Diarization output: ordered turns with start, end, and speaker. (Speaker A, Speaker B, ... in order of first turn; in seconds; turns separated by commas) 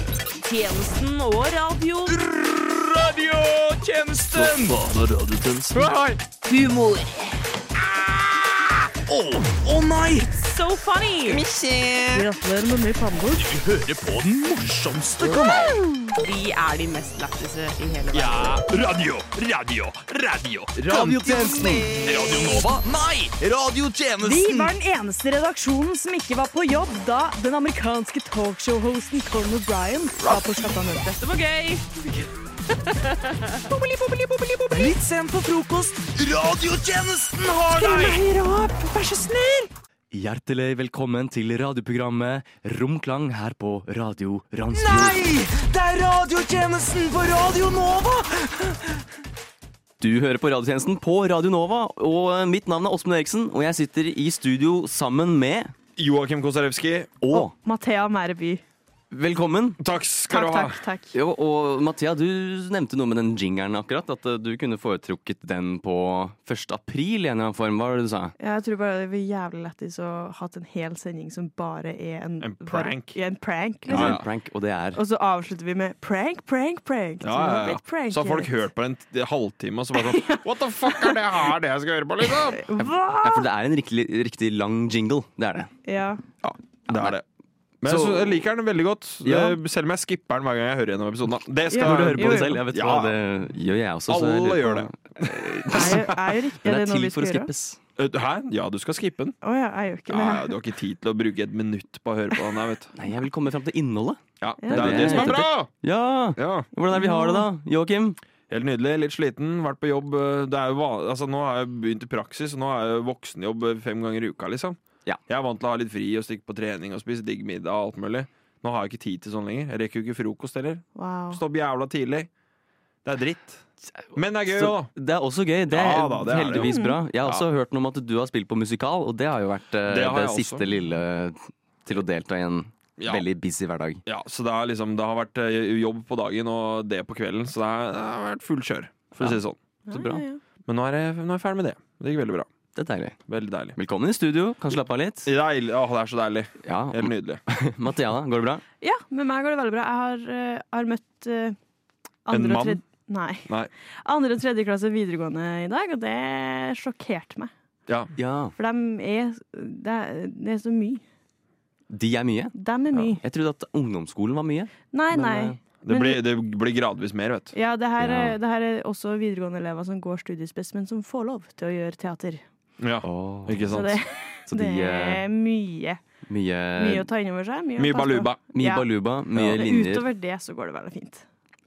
Speaker A: 0.3-2.2, Speaker B: 2.0-10.5, Speaker C: 4.3-6.0, Speaker A: 10.4-11.5, Speaker B: 11.2-12.3, Speaker D: 12.1-13.5, Speaker B: 13.3-15.9, Speaker A: 15.9-18.6, Speaker C: 18.1-20.9, Speaker B: 20.8-24.8, Speaker A: 21.3-22.6, Speaker D: 24.2-31.1, Speaker A: 30.2-32.2, Speaker A: 32.9-33.6, Speaker B: 34.7-38.2, Speaker D: 37.8-39.6, Speaker E: 40.1-45.3, Speaker B: 44.7-49.0, Speaker E: 50.0-55.7, Speaker C: 56.0-57.2, Speaker E: 57.2-57.5, Speaker D: 57.3-58.6, Speaker E: 59.1-59.8, Speaker C: 59.8-60.8, Speaker D: 60.3-61.1, Speaker E: 61.1-68.3, Speaker D: 68.4-74.2, Speaker C: 72.4-73.2, Speaker E: 73.9-75.0, Speaker C: 73.9-74.2, Speaker D: 75.0-78.5, Speaker C: 77.2-82.7, Speaker D: 80.0-81.2, Speaker D: 82.5-83.5, Speaker E: 82.8-85.7, Speaker D: 85.8-86.2, Speaker C: 86.4-87.2, Speaker E: 86.9-87.2, Speaker C: 87.8-93.2, Speaker E: 87.8-88.5, Speaker E: 89.2-89.6, Speaker D: 91.7-92.6, Speaker E: 91.8-97.8, Speaker C: 94.1-96.1, Speaker D: 95.7-97.5, Speaker C: 98.0-99.4, Speaker D: 99.4-100.5, Speaker C: 100.1-102.9, Speaker E: 103.0-108.2, Speaker C: 104.4-105.7, Speaker D: 104.6-105.4, Speaker C: 106.4-106.7, Speaker D: 106.9-107.5, Speaker C: 108.5-122.3, Speaker D: 121.0-121.4, Speaker C: 123.0-124.9, Speaker E: 124.0-134.0, Speaker C: 125.7-127.5, Speaker D: 126.5-127.0, Speaker C: 129.9-130.6, Speaker C: 133.0-133.2, Speaker C: 134.1-139.6, Speaker E: 139.2-140.2, Speaker D: 139.9-140.4, Speaker C: 140.7-142.5, Speaker E: 142.7-143.2, Speaker C: 143.3-143.8, Speaker E: 143.8-145.3, Speaker C: 144.7-147.4, Speaker E: 146.6-148.6, Speaker D: 148.8-151.6, Speaker D: 152.2-157.5, Speaker C: 152.3-152.8, Speaker C: 157.9-158.1, Speaker E: 158.2-158.5, Speaker D: 158.6-161.0, Speaker E: 161.9-165.6, Speaker D: 162.5-163.2, Speaker D: 164.9-166.2, Speaker C: 165.8-167.5, Speaker D: 167.5-172.4, Speaker E: 168.0-168.4, Speaker C: 172.8-174.0, Speaker E: 173.0-173.8, Speaker D: 173.7-176.0, Speaker E: 174.5-175.2, Speaker E: 176.3-177.1, Speaker D: 176.8-181.2, Speaker C: 177.8-178.4, Speaker E: 178.5-180.1